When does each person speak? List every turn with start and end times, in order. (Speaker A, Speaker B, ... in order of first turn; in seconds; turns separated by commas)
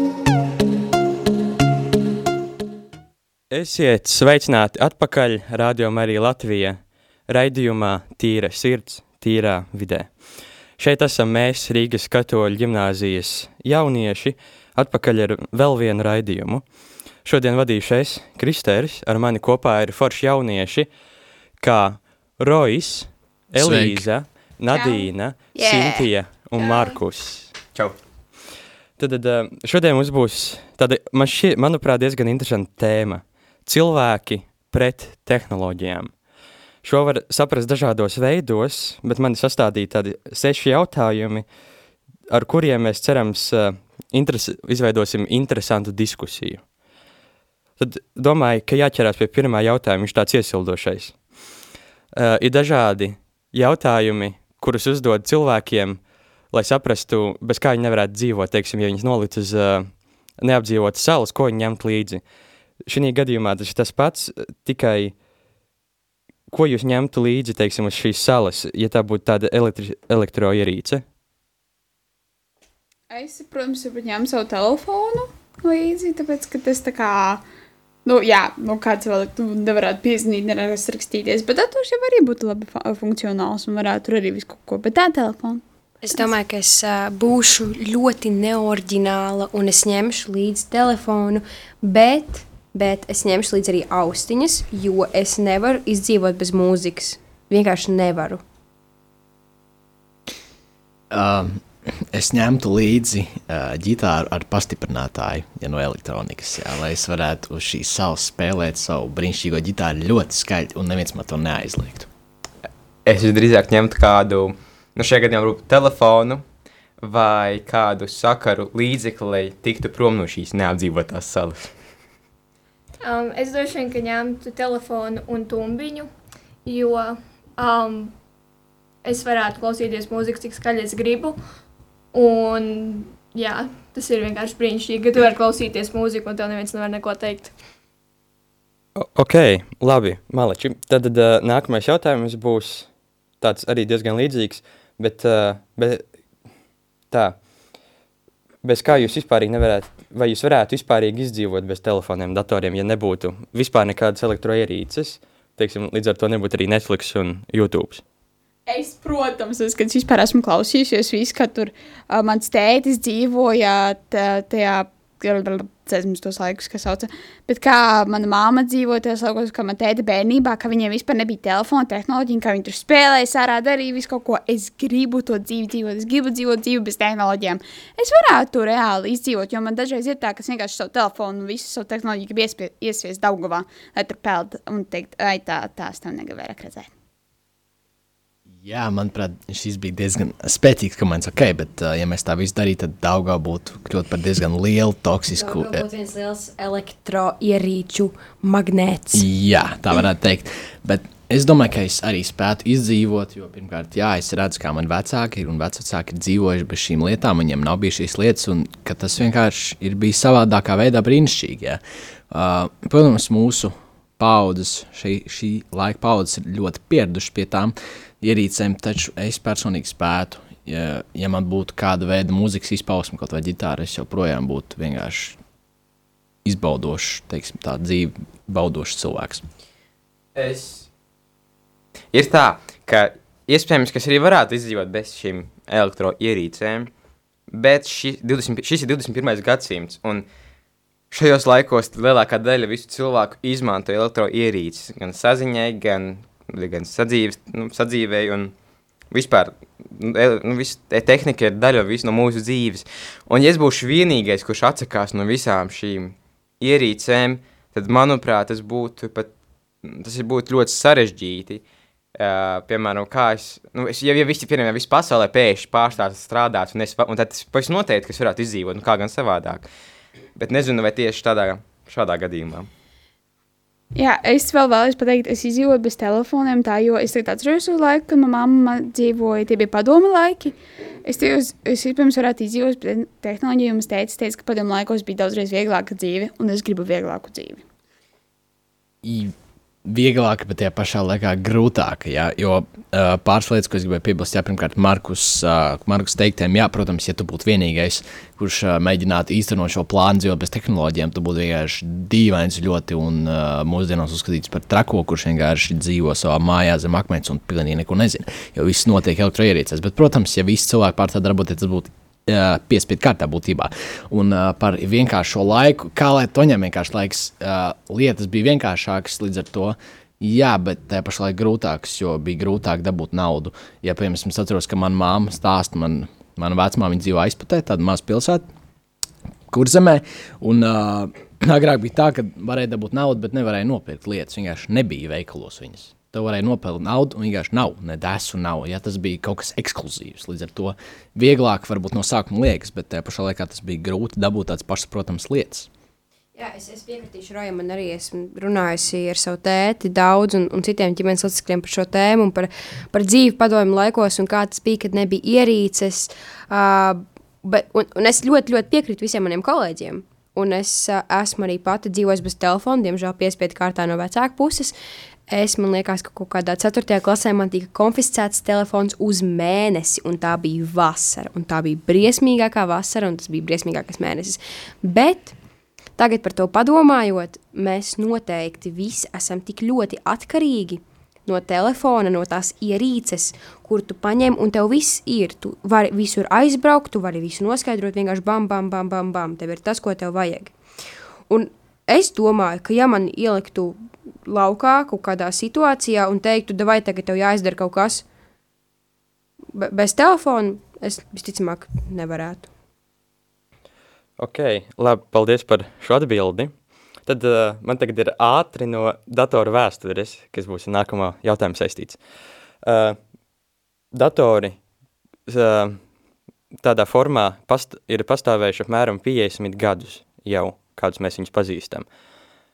Speaker A: 3.5-10.1, Speaker A: 10.8-16.6, Speaker A: 17.2-20.9, Speaker A: 21.6-27.5, Speaker B: 23.6-24.0, Speaker C: 24.7-25.1, Speaker A: 29.0-36.1, Speaker A: 36.8-41.5, Speaker A: 42.3-46.6, Speaker A: 47.8-51.1, Speaker A: 52.1-56.0, Speaker A: 56.5-59.9, Speaker A: 60.4-62.2, Speaker A: 62.9-65.1, Speaker A: 66.5-71.0, Speaker C: 73.1-77.4, Speaker C: 78.0-85.6, Speaker D: 86.0-98.4, Speaker B: 101.1-112.1, Speaker E: 113.0-116.4, Speaker E: 117.0-121.7, Speaker F: 123.0-126.1, Speaker F: 126.6-128.1, Speaker F: 129.0-131.4, Speaker F: 132.1-137.5, Speaker A: 138.9-142.9, Speaker A: 143.4-146.0, Speaker A: 147.1-147.4, Speaker A: 148.6-158.0, Speaker C: 158.7-186.9, Speaker B: 188.6-195.8, Speaker D: 195.3-199.2, Speaker B: 199.1-225.4, Speaker B: 226.4-229.4, Speaker E: 230.3-230.9, Speaker E: 232.1-236.9, Speaker E: 237.5-240.2, Speaker E: 241.1-248.5, Speaker E: 249.1-259.3, Speaker E: 259.8-261.6, Speaker E: 262.1-269.6, Speaker E: 270.4-272.7, Speaker C: 273.9-287.6, Speaker B: 289.0-289.3, Speaker B: 289.8-328.4, Speaker B: 329.5-345.7, Speaker D: 346.3-364.8, Speaker D: 365.3-375.4, Speaker D: 376.0-390.5, Speaker D: 391.3-398.0, Speaker D: 399.5-402.5, Speaker A: 404.2-406.5, Speaker A: 407.1-412.0, Speaker A: 412.6-413.0, Speaker A: 413.9-414.6, Speaker A: 415.3-415.8, Speaker A: 416.6-421.8